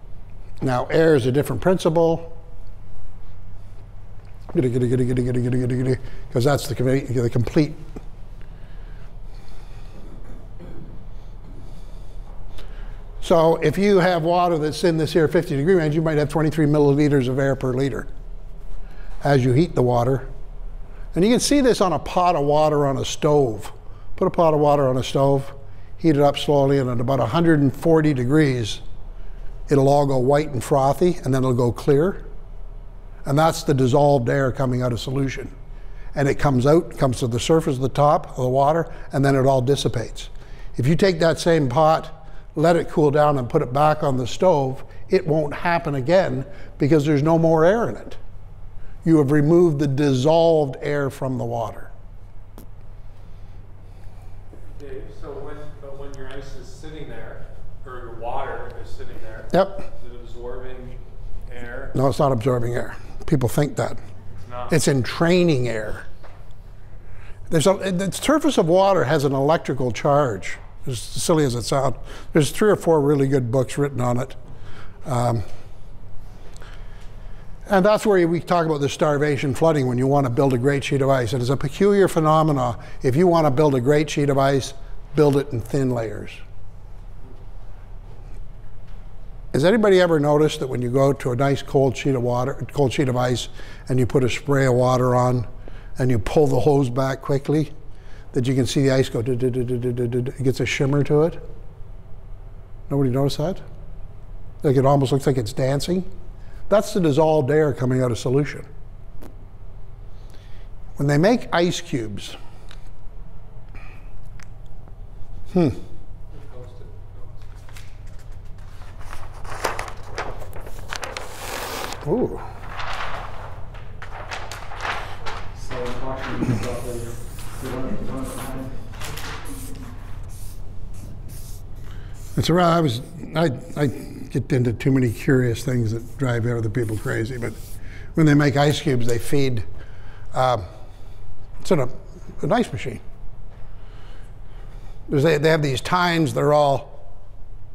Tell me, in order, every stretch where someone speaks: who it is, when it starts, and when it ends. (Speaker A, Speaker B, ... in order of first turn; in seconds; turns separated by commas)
Speaker A: 0.6-2.3, Speaker A: 4.5-7.8, Speaker A: 13.2-18.1, Speaker A: 19.2-20.3, Speaker A: 21.1-28.8, Speaker A: 29.7-32.2, Speaker A: 33.2-35.5, Speaker A: 36.1-48.2, Speaker A: 49.0-51.9, Speaker B: 54.7-61.9, Speaker A: 59.5-59.9, Speaker A: 61.9-64.0, Speaker B: 64.3-64.8, Speaker A: 64.7-66.0, Speaker A: 67.5-74.4, Speaker A: 75.0-75.5, Speaker A: 77.7-86.4, Speaker A: 89.5-97.7, Speaker A: 98.3-101.4, Speaker A: 102.9-103.6, Speaker A: 104.6-106.1, Speaker A: 106.7-108.7, Speaker A: 111.0-112.4, Speaker A: 115.5-115.8, Speaker B: 116.3-117.4, Speaker A: 122.0-122.4, Speaker C: 125.5-128.7, Speaker A: 132.3-137.6, Speaker A: 138.1-139.7, Speaker A: 140.3-140.7, Speaker A: 141.6-143.0, Speaker A: 145.1-147.0